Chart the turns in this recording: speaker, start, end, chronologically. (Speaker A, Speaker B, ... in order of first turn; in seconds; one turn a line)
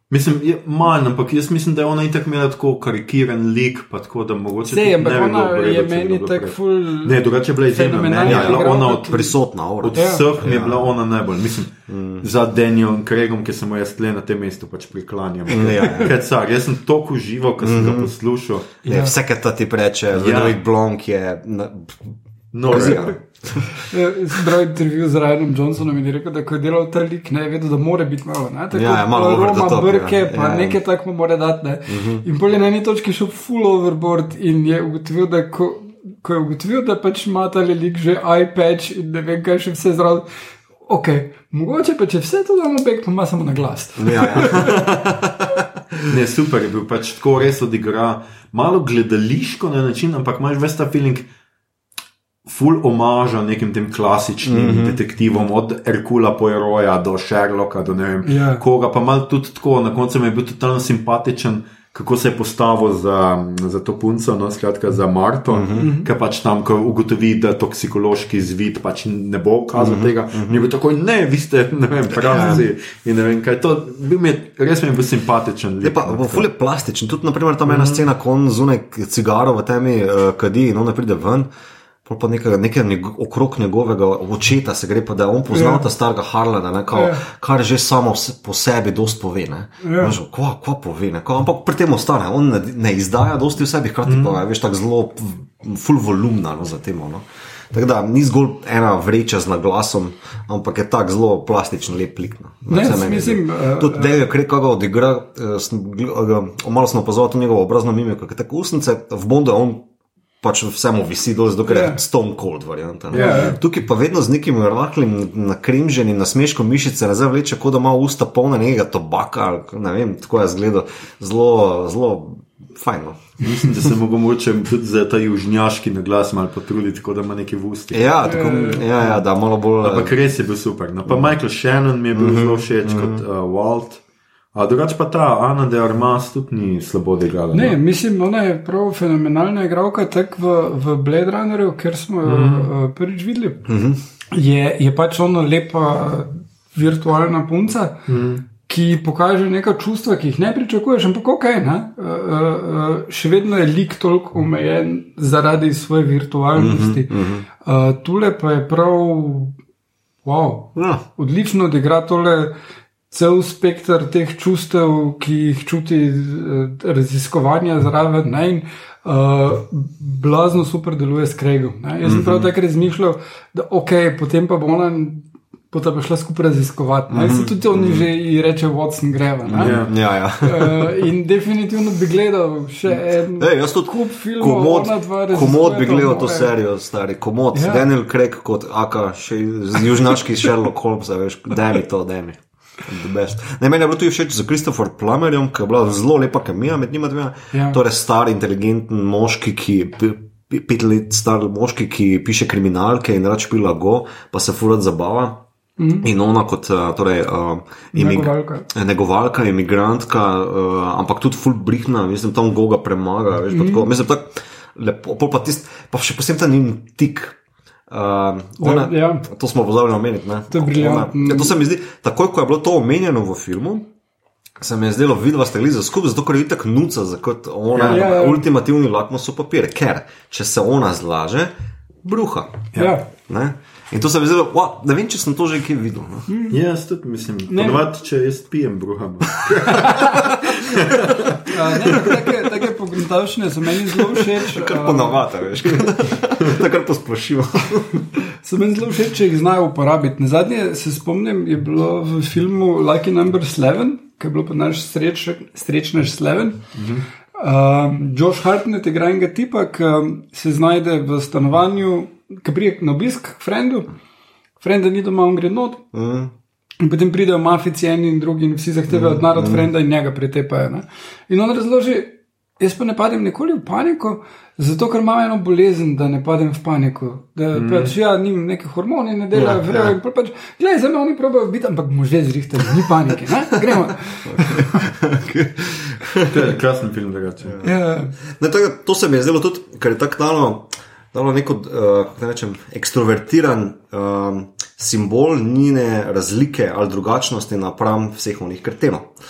Speaker A: 0.1-18.7
Speaker B: 4.7-9.3
Speaker C: 8.2-10.9
Speaker B: 9.9-10.2
Speaker C: 11.9-12.2
Speaker C: 15.5-16.1
Speaker C: 17.6-18.1
Speaker C: 18.8-24.4
Speaker B: 18.9-19.2
Speaker A: 20.1-20.6
Speaker A: 22.5-23.2
Speaker B: 23.8-40.3
Speaker C: 28.7-30.8
Speaker C: 31.9-32.2
Speaker B: 40.8-44.9
Speaker C: 44.0-45.6
Speaker A: 46.1-51.3
Speaker A: 52.5-76.5
Speaker C: 54.4-55.0
Speaker B: 58.2-58.6
Speaker C: 65.5-65.9
Speaker B: 65.8-66.1
Speaker C: 69.8-70.7
Speaker C: 72.2-72.7
Speaker B: 72.3-72.6
Speaker C: 75.8-81.5
Speaker A: 77.7-78.0
Speaker C: 82.0-109.8
Speaker B: 85.5-85.9
Speaker B: 86.9-87.2
Speaker B: 89.8-90.2
Speaker A: 94.1-94.4
Speaker B: 102.7-104.2
Speaker C: 110.4-123.2
Speaker B: 111.7-112.0
Speaker A: 113.1-113.6
Speaker B: 113.1-113.6
Speaker A: 123.4-128.3
Speaker C: 127.9-130.1
Speaker B: 128.2-128.9
Speaker A: 129.8-134.0
Speaker C: 131.1-131.3
Speaker C: 132.1-133.2
Speaker A: 134.5-137.8
Speaker B: 137.5-143.7
Speaker A: 142.2-142.7
Speaker C: 143.7-144.0
Speaker B: 144.3-148.1
Speaker A: 148.1-148.4
Speaker B: 148.6-159.6
Speaker C: 156.6-157.4
Speaker B: 160.2-162.5
Speaker C: 160.8-161.0
Speaker B: 163.1-186.5
Speaker C: 172.0-172.5
Speaker C: 177.1-178.1
Speaker C: 179.4-181.1
Speaker A: 179.6-180.0
Speaker C: 182.9-205.4
Speaker B: 187.5-187.8
Speaker B: 197.5-197.8
Speaker B: 205.8-206.1
Speaker C: 206.0-223.9
Speaker B: 207.9-208.7
Speaker B: 213.5-213.9
Speaker B: 218.6-219.3
Speaker B: 220.5-221.6
Speaker C: 224.6-231.5
Speaker A: 227.7-228.1
Speaker B: 227.8-228.5
Speaker C: 232.0-232.7
Speaker A: 232.7-233.0
Speaker B: 232.8-233.1
Speaker C: 233.3-236.3
Speaker B: 236.3-236.6
Speaker A: 236.5-242.1
Speaker B: 237.5-237.9
Speaker B: 239.7-240.4
Speaker C: 240.5-241.3
Speaker B: 241.4-245.5
Speaker C: 241.8-242.3
Speaker C: 243.9-248.3
Speaker B: 248.4-256.6
Speaker A: 256.8-257.1
Speaker B: 257.4-263.9
Speaker B: 264.6-265.9
Speaker C: 265.9-266.3
Speaker B: 266.8-285.0
Speaker C: 268.9-269.7
Speaker A: 277.5-277.9
Speaker C: 279.3-279.9
Speaker C: 283.6-286.4
Speaker A: 286.3-287.6
Speaker C: 287.4-299.1
Speaker B: 287.6-288.1